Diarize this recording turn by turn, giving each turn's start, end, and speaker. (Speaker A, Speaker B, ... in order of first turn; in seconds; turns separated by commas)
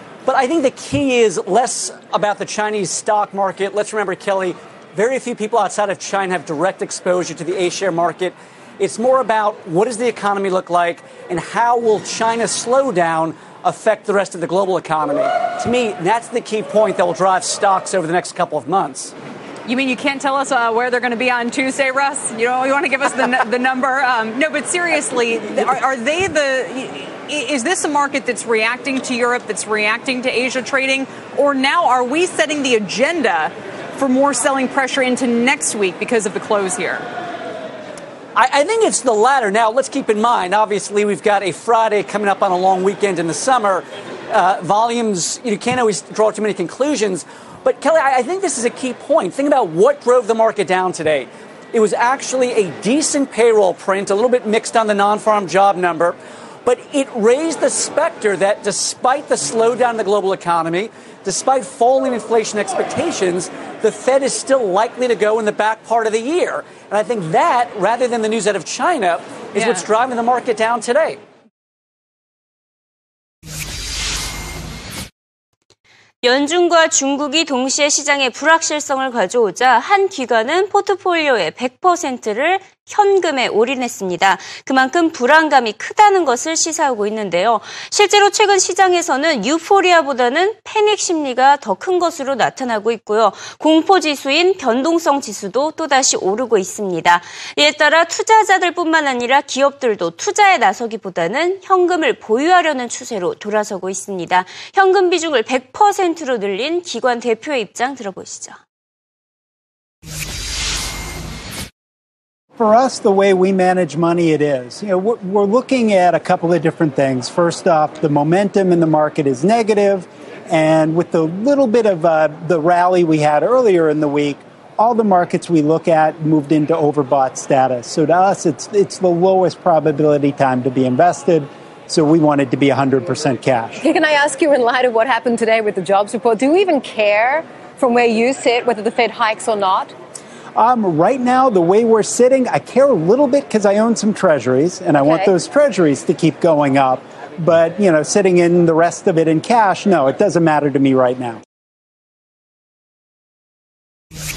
Speaker A: 0.3-19.1, Speaker B: 19.7-33.5, Speaker B: 34.0-37.0, Speaker A: 38.4-71.2, Speaker C: 76.2-108.6, Speaker D: 112.6-133.8, Speaker E: 133.8-139.9, Speaker D: 140.6-151.4, Speaker E: 145.0-145.3